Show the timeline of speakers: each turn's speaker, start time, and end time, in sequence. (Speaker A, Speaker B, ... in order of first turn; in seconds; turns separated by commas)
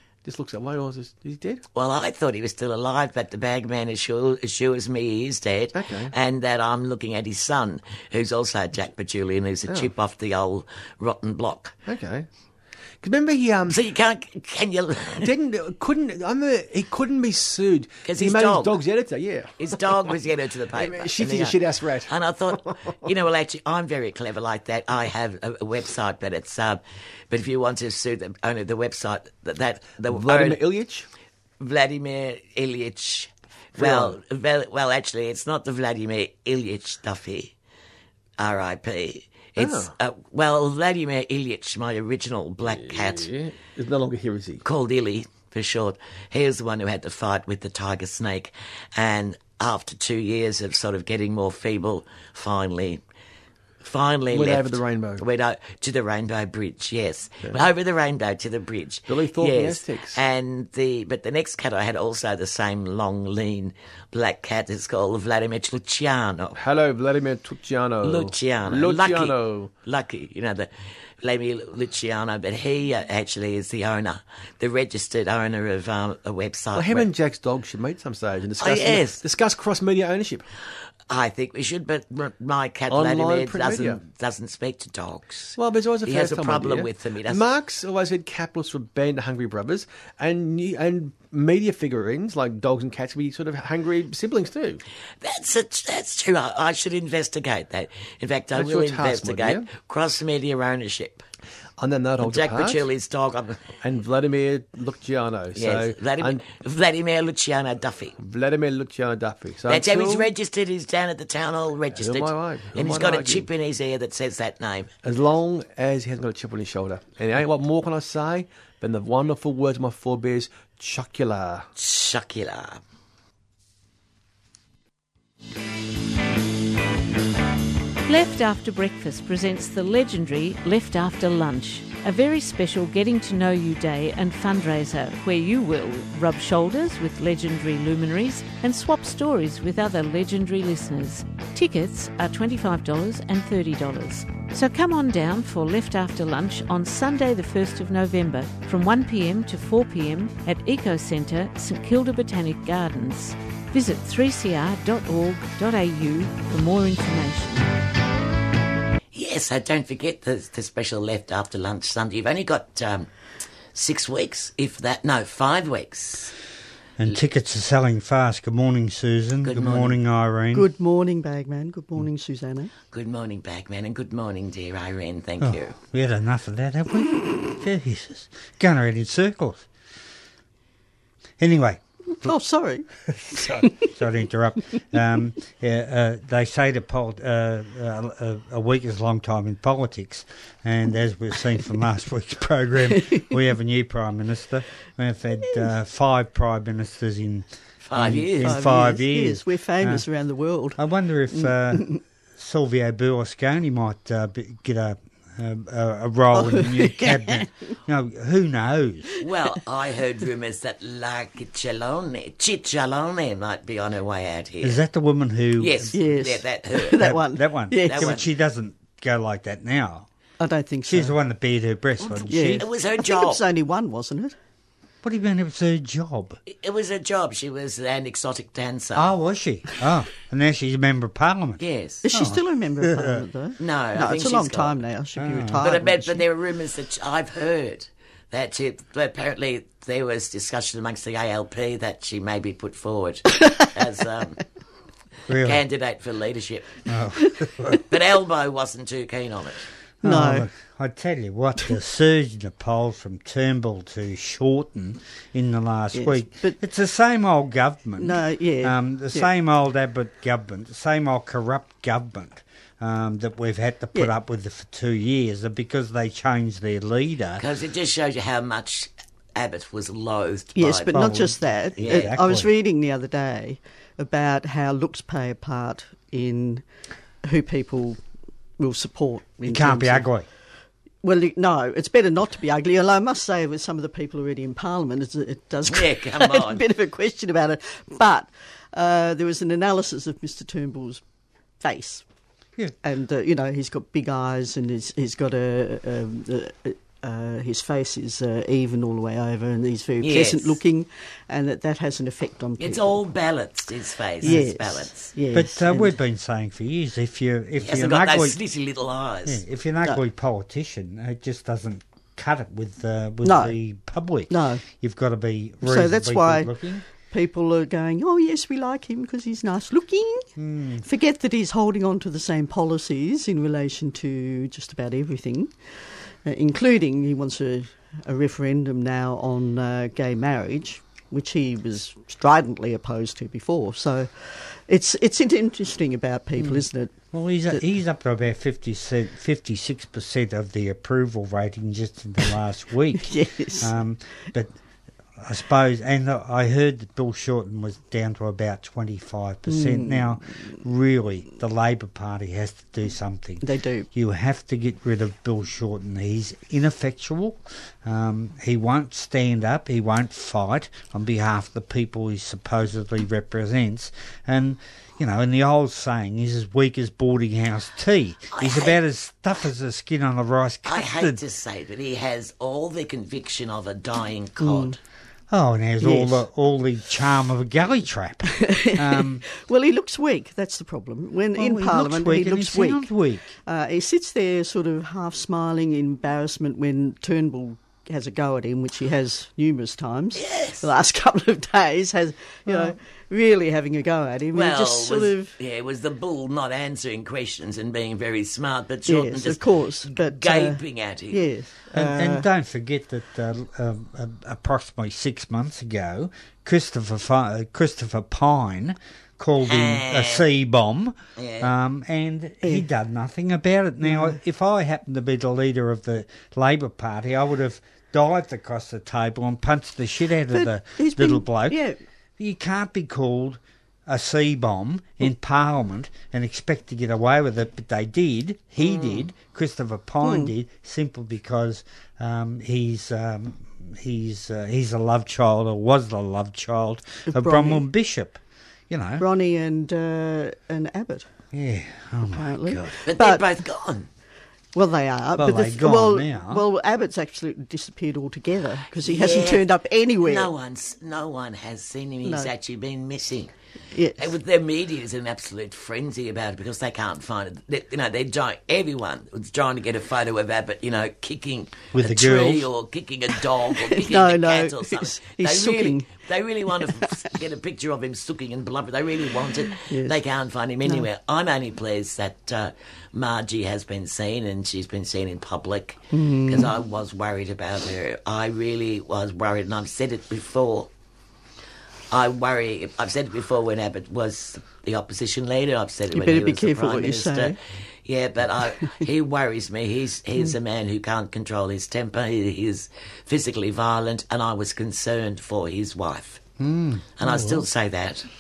Speaker A: 0.2-1.6, Speaker B: 1.7-11.8, Speaker A: 5.7-6.1, Speaker A: 11.9-12.3, Speaker A: 13.0-13.8, Speaker B: 13.7-15.3, Speaker A: 15.2-20.1, Speaker B: 18.1-18.8, Speaker B: 19.6-30.6, Speaker A: 20.7-23.1, Speaker A: 30.1-31.1, Speaker B: 31.6-37.5, Speaker A: 33.8-34.2, Speaker B: 38.4-43.3, Speaker A: 39.6-39.9, Speaker A: 42.6-44.6, Speaker B: 44.6-53.0, Speaker B: 53.8-66.6, Speaker A: 54.3-55.2, Speaker A: 59.1-60.2, Speaker A: 66.5-69.7, Speaker B: 68.0-77.1, Speaker A: 76.8-80.5, Speaker B: 78.6-79.2, Speaker B: 81.1-87.4, Speaker A: 82.9-84.0, Speaker A: 85.6-94.8, Speaker B: 95.2-101.2, Speaker A: 98.5-99.7, Speaker A: 101.8-102.8, Speaker B: 102.2-103.7, Speaker A: 103.8-106.4, Speaker B: 105.5-108.2, Speaker A: 108.2-110.3, Speaker B: 109.7-114.9, Speaker A: 112.0-113.5, Speaker A: 115.0-121.7, Speaker B: 121.8-122.8, Speaker C: 128.1-157.7, Speaker B: 159.1-163.1, Speaker B: 163.7-166.3, Speaker D: 167.0-170.7, Speaker B: 169.4-170.0, Speaker E: 170.5-172.7, Speaker B: 172.9-175.8, Speaker D: 175.4-179.7, Speaker D: 181.4-182.3, Speaker E: 182.2-183.9, Speaker D: 183.1-200.0, Speaker E: 193.1-193.3, Speaker B: 197.8-198.6, Speaker E: 198.4-200.8, Speaker D: 200.8-209.1, Speaker E: 201.3-202.0, Speaker E: 206.3-207.5, Speaker B: 209.2-214.8, Speaker D: 214.6-216.0, Speaker B: 215.6-217.1, Speaker E: 215.9-218.2, Speaker D: 217.0-220.1, Speaker B: 217.8-218.3, Speaker E: 220.4-221.2, Speaker D: 220.9-222.7, Speaker B: 222.0-223.4, Speaker E: 222.3-224.3, Speaker D: 225.0-226.4, Speaker B: 226.5-229.1, Speaker D: 228.9-233.2, Speaker B: 231.6-232.1, Speaker E: 232.1-236.2, Speaker B: 233.6-234.8, Speaker D: 235.2-235.8, Speaker B: 235.6-244.4, Speaker D: 245.3-245.6, Speaker B: 245.4-246.7, Speaker D: 246.9-247.8, Speaker B: 247.9-249.7, Speaker D: 250.0-267.4, Speaker E: 250.0-250.5, Speaker E: 255.9-256.6, Speaker E: 258.0-259.3, Speaker B: 267.4-271.2, Speaker E: 270.6-276.6, Speaker D: 270.9-272.5, Speaker B: 271.8-272.2, Speaker E: 277.2-278.0, Speaker E: 278.6-280.1, Speaker D: 279.4-280.3, Speaker E: 281.0-291.0, Speaker B: 285.7-286.6, Speaker E: 291.6-292.1, Speaker E: 292.8-303.0, Speaker B: 300.0-300.6, Speaker B: 302.6-305.1, Speaker E: 304.2-305.9, Speaker D: 305.3-308.4, Speaker B: 307.6-309.4, Speaker D: 309.3-316.9, Speaker E: 313.2-313.6, Speaker E: 314.3-314.6, Speaker E: 315.6-320.3, Speaker D: 320.4-320.9, Speaker E: 320.9-337.0, Speaker D: 336.4-344.6, Speaker E: 343.1-343.7, Speaker D: 345.2-371.2, Speaker E: 349.5-350.5, Speaker E: 353.4-353.9, Speaker B: 368.3-368.8, Speaker B: 370.6-374.8, Speaker E: 374.4-374.8, Speaker D: 375.3-379.2, Speaker E: 375.8-376.2, Speaker E: 378.4-382.9, Speaker D: 381.4-383.3, Speaker E: 383.4-395.4, Speaker B: 390.1-390.7, Speaker D: 392.5-392.8, Speaker B: 394.3-401.2, Speaker E: 398.9-402.3, Speaker D: 401.7-421.6, Speaker B: 409.4-410.2, Speaker B: 411.2-411.5, Speaker E: 413.9-414.2, Speaker E: 420.3-421.8, Speaker D: 422.2-439.1, Speaker E: 428.6-429.0, Speaker E: 430.0-430.3, Speaker E: 437.1-437.6, Speaker E: 439.0-441.1, Speaker D: 441.3-442.8, Speaker E: 442.1-443.3, Speaker B: 442.9-443.9, Speaker E: 444.6-450.3, Speaker D: 445.2-446.4, Speaker B: 448.8-449.4, Speaker B: 450.0-453.3, Speaker E: 452.0-452.3, Speaker E: 453.7-454.1, Speaker B: 454.0-480.7, Speaker D: 461.7-462.5, Speaker E: 463.5-467.0, Speaker E: 469.7-470.0, Speaker E: 475.9-476.5, Speaker B: 481.9-487.3, Speaker E: 485.9-487.4, Speaker B: 487.9-496.2, Speaker D: 496.4-497.5, Speaker B: 497.0-498.1